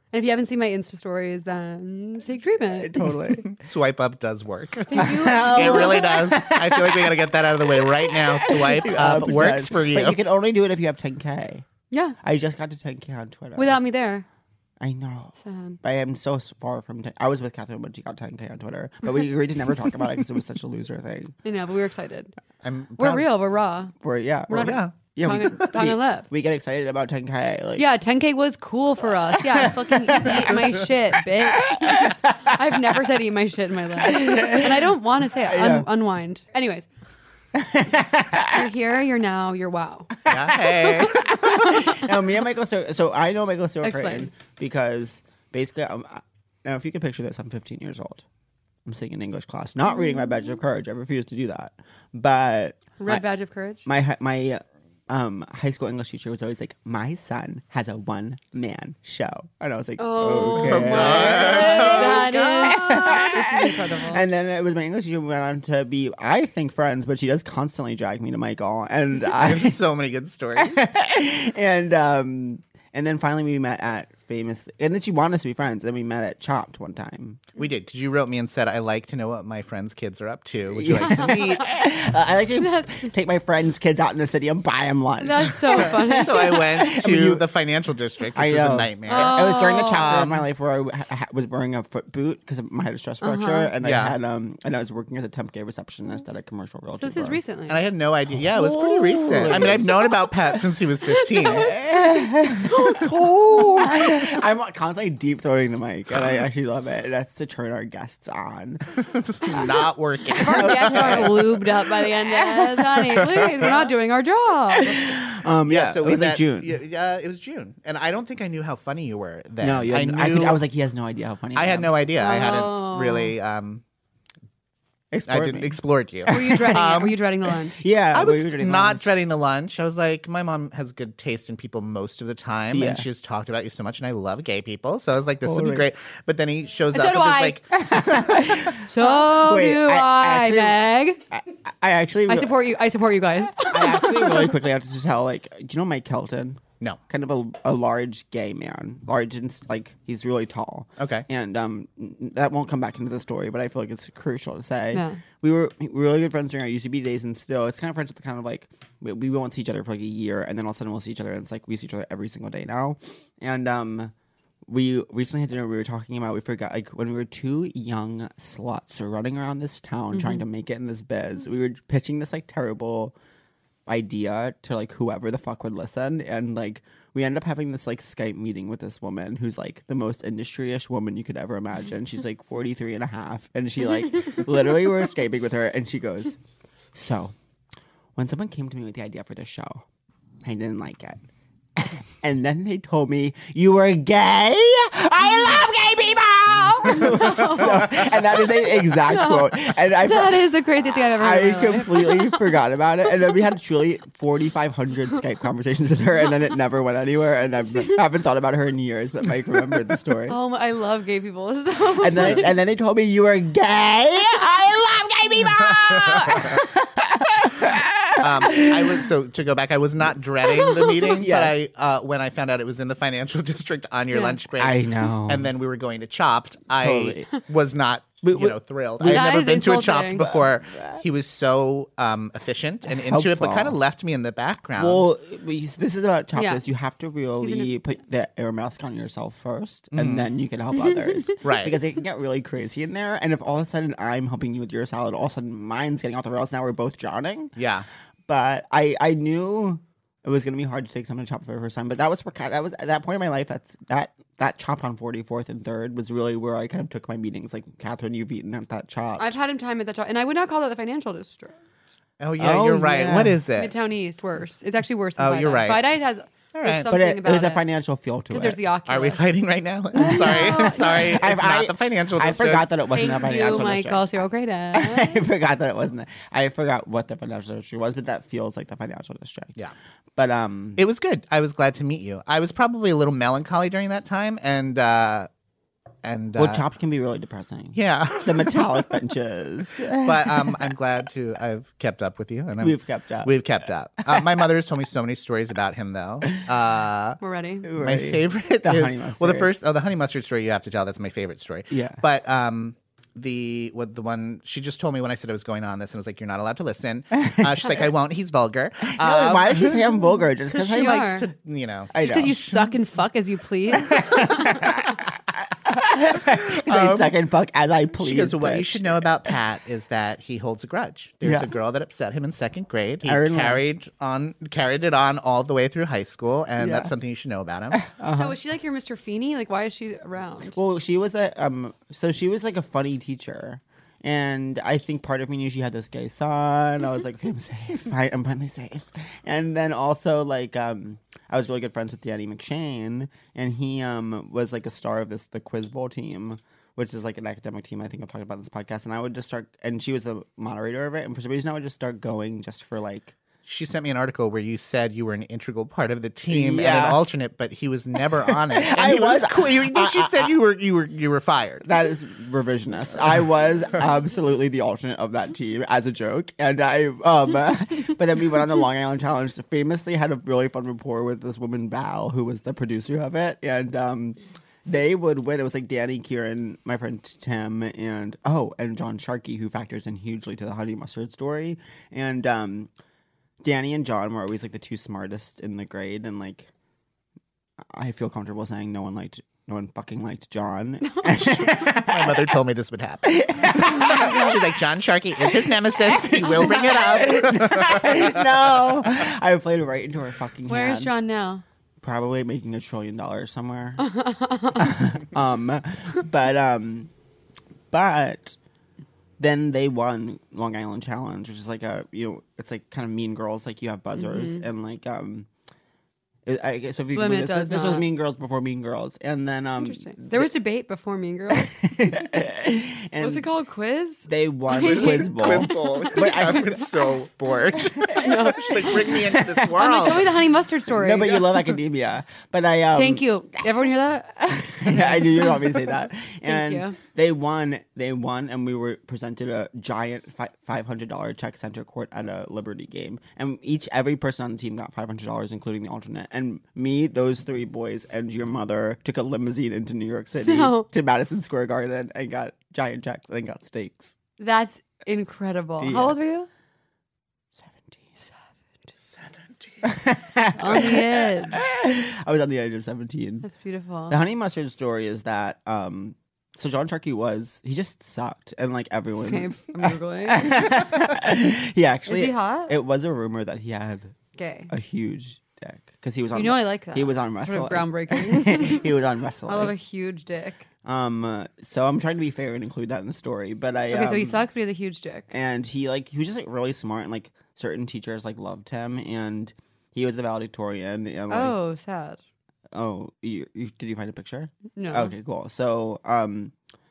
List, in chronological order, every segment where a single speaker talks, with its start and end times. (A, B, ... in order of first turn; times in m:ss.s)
0:00.1-0:03.2 A
0:02.8-0:03.6 B
0:03.4-0:10.2 C
0:04.9-0:06.2 A
0:04.9-0:11.6 B
0:11.9-0:12.2 A
0:12.2-0:13.8 B
0:13.6-0:14.2 A
0:14.8-0:21.4 B
0:15.4-0:15.8 A
0:21.4-0:22.3 A
0:22.6-0:23.3 C
0:23.0-0:23.9 A
0:24.0-0:27.9 B
0:24.5-0:26.3 A
0:24.5-0:25.7 C
0:27.8-0:36.9 A
0:29.5-0:30.7 B
0:31.4-0:32.5 B
0:34.0-0:34.9 B
0:35.4-0:35.9 B
0:37.5-0:38.6 B
0:38.5-0:40.1 A
0:40.2-0:48.2 B
0:40.3-0:41.8 C
0:41.6-0:42.0 A
0:43.8-0:44.3 A
0:48.8-0:53.2 B
0:53.0-0:53.8 A
0:53.8-1:09.8 B
1:00.0-1:04.2 A
1:00.3-1:03.3 C
1:09.3-1:10.9 C
1:10.6-1:17.5 B
1:17.6-1:21.7 C
1:20.7-1:27.4 B
1:21.0-1:21.7 A
1:22.6-1:23.1 A
1:25.2-1:26.7 A
1:25.8-1:30.4 C
1:28.3-1:37.4 B
1:29.1-1:30.1 A
1:33.2-1:33.7 A
1:33.8-1:34.2 C
1:37.0-1:37.8 A
1:37.7-1:41.8 C
1:38.4-1:40.0 B
1:41.1-1:44.2 A
1:41.4-1:49.0 B
1:43.0-1:43.9 C
1:49.0-1:51.5 C
1:50.4-1:51.6 B
1:50.4-1:55.2 A
1:52.2-1:52.8 B
1:53.1-1:53.7 C
1:54.7-1:56.8 B
1:55.6-2:00.6 C
1:59.6-2:01.9 B
2:01.5-2:03.8 C
2:02.2-2:03.3 A
2:05.1-2:06.9 B
2:05.3-2:07.1 C
2:06.3-2:07.8 A
2:07.8-2:09.0 B
2:08.1-2:18.7 C
2:12.7-2:13.0 B
2:15.4-2:15.9 B
2:16.9-2:17.6 A
2:17.7-2:20.8 B
2:18.8-2:21.2 A
2:21.3-2:22.5 B
2:22.3-2:24.5 A
2:23.7-2:44.1 B
2:31.0-2:31.2 C
2:34.9-2:35.2 A
2:44.6-2:53.1 B
2:50.1-2:50.4 A
2:53.9-3:06.4 B
3:06.9-3:07.3 B
3:08.2-3:09.8 B
3:10.4-3:11.2 B
3:11.8-3:30.4 B
3:16.8-3:22.4 A
3:30.3-3:32.5 A
3:32.0-3:39.1 B
3:35.7-3:36.5 C
3:38.2-3:55.0 C
3:40.6-3:41.6 B
3:44.1-3:44.4 A
3:44.6-3:45.5 B
3:46.8-3:47.3 B
3:48.2-3:49.4 B
3:49.1-3:50.2 A
3:50.2-3:51.0 B
3:52.9-3:53.8 B
3:54.8-4:07.6 B
3:56.4-3:56.6 A
3:57.4-3:57.7 A
3:59.9-4:00.3 C
4:01.4-4:01.8 C
4:07.6-4:07.8 C
4:08.3-4:19.4 B
4:19.2-4:21.6 A
4:22.2-4:23.7 C
4:22.4-4:23.4 B
4:23.6-4:27.6 A
4:25.2-4:25.9 C
4:26.5-4:26.9 C
4:26.9-4:28.6 B
4:28.3-4:29.2 A
4:28.9-4:32.7 C
4:29.9-4:34.1 B
4:30.0-4:30.9 A
4:32.9-4:35.2 A
4:34.7-4:39.6 B
4:40.2-4:40.8 B
4:40.8-4:45.3 C
4:46.0-4:46.6 C
4:46.3-4:50.7 B
4:47.7-4:48.9 C
4:50.0-4:57.2 C
4:52.6-4:53.4 B
4:57.2-4:57.7 A
4:57.6-4:59.5 B
4:57.8-5:09.9 C
5:01.7-5:02.0 B
5:07.1-5:07.8 B
5:08.9-5:11.2 B
5:10.5-5:11.3 A
5:10.8-5:12.8 C
5:11.9-5:12.4 B
5:12.0-5:14.7 A
5:13.8-5:15.0 B
5:15.6-5:19.3 B
5:16.6-5:17.1 C
5:18.0-5:27.8 C
5:21.2-5:21.5 B
5:23.0-5:23.6 B
5:26.6-5:26.9 B
5:27.7-5:28.4 B
5:28.1-5:30.6 A
5:30.5-5:53.1 B
5:53.4-6:01.6 C
5:56.3-5:57.0 B
5:58.3-6:00.4 B
6:01.6-6:22.7 B
6:23.4-6:26.5 B
6:27.7-6:32.3 B
6:31.1-6:38.3 C
6:33.0-6:34.4 B
6:33.7-6:34.4 A
6:35.2-6:41.0 B
6:36.2-6:36.9 A
6:40.5-6:41.4 A
6:41.8-6:43.9 B
6:43.8-6:44.8 A
6:44.5-6:46.9 B
6:47.7-6:48.4 B
6:49.2-6:55.3 B
6:54.0-6:54.4 A
6:56.2-7:00.3 B
6:56.9-6:57.8 A
6:59.6-7:02.1 A
7:01.3-7:03.2 B
7:03.0-7:06.6 A
7:04.1-7:06.6 B
7:04.6-7:10.1 C
7:07.7-7:09.9 B
7:07.9-7:11.5 A
7:10.7-7:13.7 B
7:12.7-7:15.4 A
7:14.3-7:34.0 B
7:16.2-7:16.8 A
7:30.2-7:30.6 A
7:34.2-7:36.3 A
7:35.6-7:36.0 B
7:37.3-7:37.9 B
7:38.8-7:39.7 C
7:39.6-7:43.3 B
7:40.4-7:41.4 A
7:43.2-7:44.0 A
7:43.9-7:53.9 B
7:49.0-7:50.6 A
7:51.9-7:52.5 A
7:54.2-7:54.5 A
7:54.5-7:59.5 B
7:56.1-7:58.7 A
7:59.3-8:00.4 A
8:00.6-8:04.2 B
8:03.7-8:05.1 A
8:05.1-8:11.4 B
8:11.1-8:12.0 A
8:12.5-8:16.3 B
8:14.6-8:14.9 A